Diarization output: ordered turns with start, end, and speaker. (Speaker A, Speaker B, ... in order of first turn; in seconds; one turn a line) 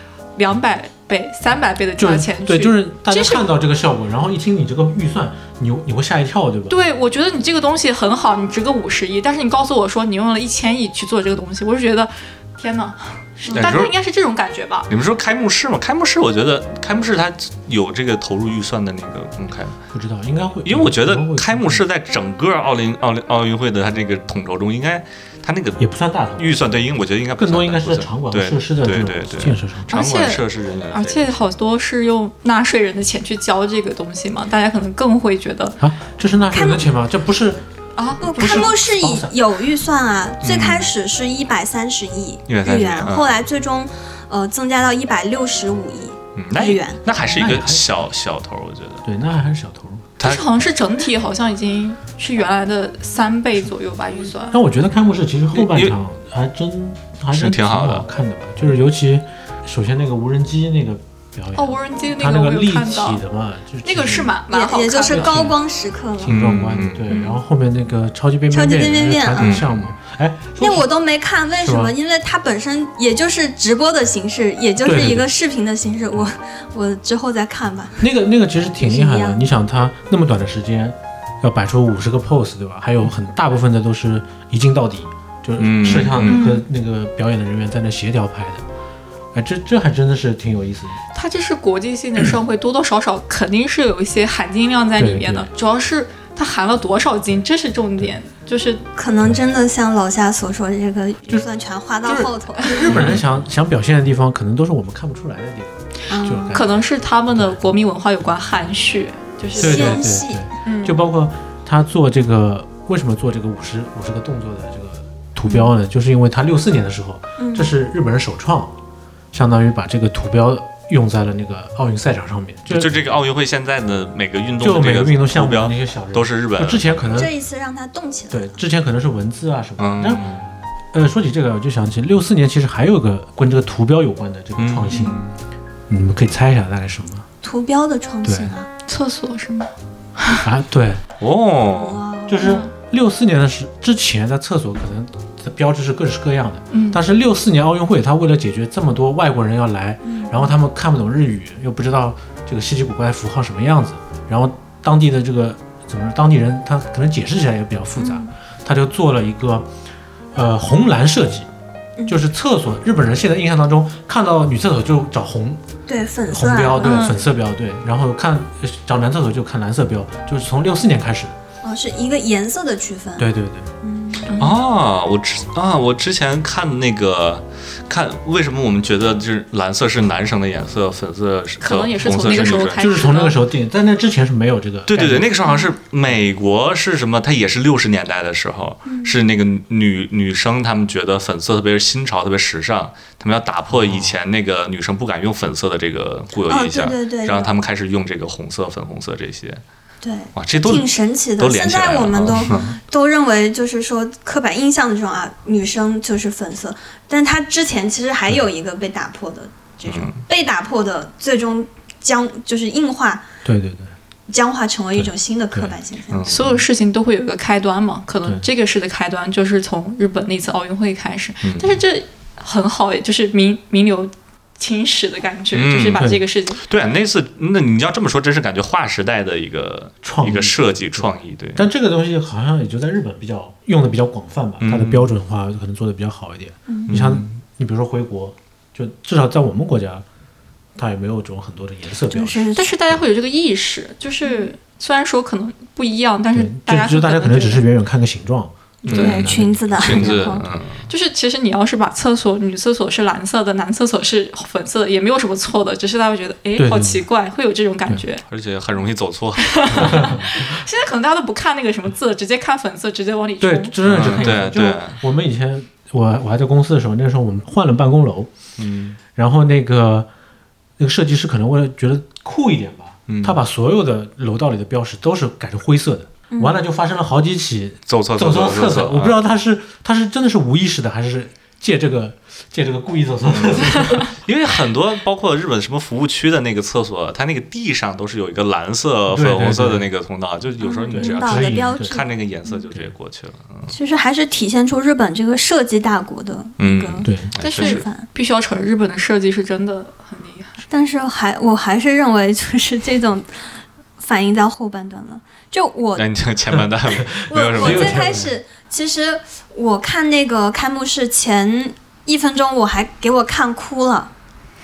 Speaker A: 0.4-3.5
Speaker B: 2.0-6.8
Speaker A: 6.7-14.9
Speaker C: 13.5-13.7
Speaker D: 13.5-13.9
Speaker D: 14.9-19.8
Speaker B: 19.9-21.8
Speaker D: 20.6-25.8
Speaker B: 25.8-26.8
Speaker D: 26.4-31.4
Speaker B: 27.4-29.9
Speaker A: 29.9-35.8
Speaker B: 35.8-37.6
Speaker C: 36.5-36.9
Speaker A: 38.0-38.8
Speaker B: 38.2-39.3
Speaker C: 38.2-47.0
Speaker D: 40.4-40.9
Speaker D: 42.5-43.4
Speaker D: 46.4-49.0
Speaker B: 47.2-47.9
Speaker B: 49.0-50.0
Speaker A: 50.2-54.6
Speaker B: 54.5-64.4
Speaker D: 55.5-56.0
Speaker D: 57.3-58.1
Speaker A: 61.6-63.2
Speaker A: 63.8-65.5
Speaker C: 64.5-66.3
Speaker B: 65.1-65.6
Speaker B: 66.2-70.9
Speaker D: 66.2-67.2
Speaker C: 68.5-69.6
Speaker D: 69.4-69.9
Speaker C: 70.6-78.1
Speaker B: 71.6-72.0
Speaker B: 74.8-75.3
Speaker B: 78.0-88.6
Speaker C: 78.8-79.4
Speaker D: 85.6-86.4
Speaker C: 86.2-86.7
Speaker B: 89.3-91.0
Speaker A: 91.1-98.8
Speaker B: 95.0-95.5
Speaker C: 99.0-103.2
Speaker B: 102.0-107.6
Speaker A: 102.7-103.1
Speaker C: 106.1-106.6
Speaker A: 106.5-110.0
Speaker C: 109.5-110.4
Speaker B: 109.5-118.7
Speaker A: 110.7-111.0
Speaker C: 117.4-117.7
Speaker B: 119.3-123.0
Speaker D: 122.7-126.9
Speaker B: 124.6-127.3
Speaker C: 127.1-128.6
Speaker B: 128.3-130.3
Speaker D: 129.8-130.5
Speaker B: 130.9-135.2
Speaker D: 134.6-135.3
Speaker C: 134.9-135.2
Speaker B: 135.9-137.2
Speaker C: 137.4-138.7
Speaker B: 138.2-138.5
Speaker A: 138.9-140.4
Speaker B: 140.4-141.0
Speaker D: 141.2-142.0
Speaker C: 141.7-142.4
Speaker B: 142.3-159.7
Speaker A: 142.4-142.7
Speaker A: 146.7-147.0
Speaker C: 150.1-150.5
Speaker C: 158.0-158.3
Speaker B: 160.3-161.5
Speaker B: 162.1-165.6
Speaker C: 165.9-167.3
Speaker B: 166.3-171.3
Speaker A: 166.8-167.2
Speaker C: 171.6-173.3
Speaker B: 173.2-173.7
Speaker C: 173.8-174.3
Speaker A: 174.3-174.6
Speaker D: 174.4-182.9
Speaker A: 181.6-183.4
Speaker B: 182.2-185.3
Speaker D: 184.9-199.6
Speaker C: 185.4-185.7
Speaker C: 188.9-189.2
Speaker B: 193.7-194.2
Speaker C: 196.5-197.5
Speaker C: 200.0-213.3
Speaker D: 200.3-202.7
Speaker D: 209.9-210.2
Speaker B: 213.4-213.9
Speaker C: 214.3-216.4
Speaker B: 214.9-215.7
Speaker D: 216.1-216.6
Speaker A: 216.3-226.6
Speaker D: 221.4-221.8
Speaker D: 225.5-226.1
Speaker D: 226.6-231.7
Speaker B: 230.0-240.1
Speaker D: 234.6-235.1
Speaker C: 236.7-237.0
Speaker D: 236.9-237.4
Speaker B: 240.8-243.0
Speaker C: 242.1-242.7
Speaker A: 242.6-247.7
Speaker C: 244.2-244.5
Speaker B: 246.3-250.3
Speaker A: 248.8-249.3
Speaker D: 248.8-250.9
Speaker C: 248.9-250.4
Speaker A: 250.9-258.2
Speaker B: 256.6-257.0
Speaker D: 258.3-260.1
Speaker A: 259.4-264.4
Speaker B: 259.8-260.4
Speaker B: 263.4-268.3
Speaker D: 263.8-265.0
Speaker D: 268.6-269.0
Speaker B: 269.1-270.1
Speaker B: 270.8-284.1
Speaker D: 273.1-273.4
Speaker C: 276.3-276.6
Speaker D: 277.9-279.2
Speaker D: 283.3-293.7
Speaker B: 289.1-289.9
Speaker C: 290.6-292.6
Speaker B: 290.9-292.0
Speaker C: 293.7-298.1
Speaker D: 296.6-297.9
Speaker B: 297.0-297.3
Speaker A: 297.4-300.6
Speaker C: 300.7-303.3
Speaker C: 304.0-306.1
Speaker D: 306.0-308.2
Speaker B: 307.2-308.3
Speaker C: 307.3-314.1